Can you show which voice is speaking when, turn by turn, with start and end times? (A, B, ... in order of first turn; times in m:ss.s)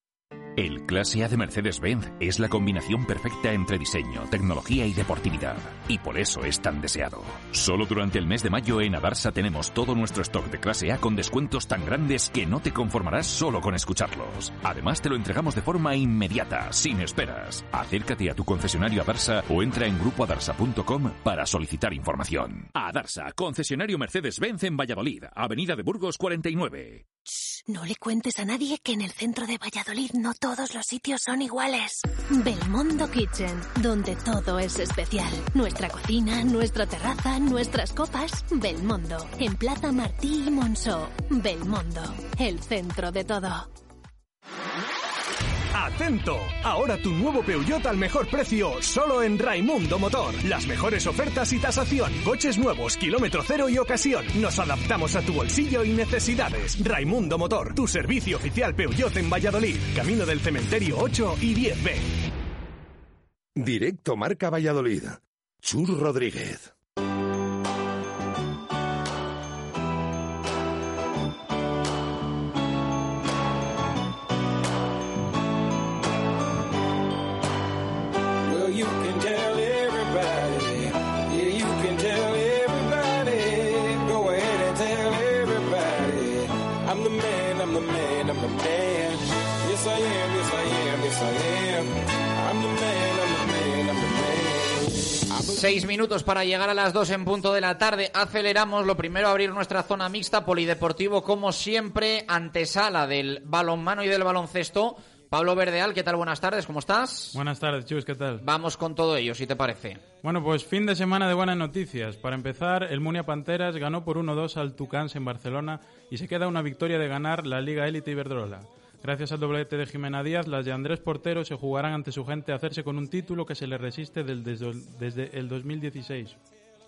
0:00.6-0:27.0 A
0:27.7-0:43.7 B
0:45.7-1:02.2 C
1:03.6-1:06.7 D
1:35.5-1:47.4 E
1:47.3-1:48.4 F
1:48.4-1:50.0 E
1:50.2-2:06.4 F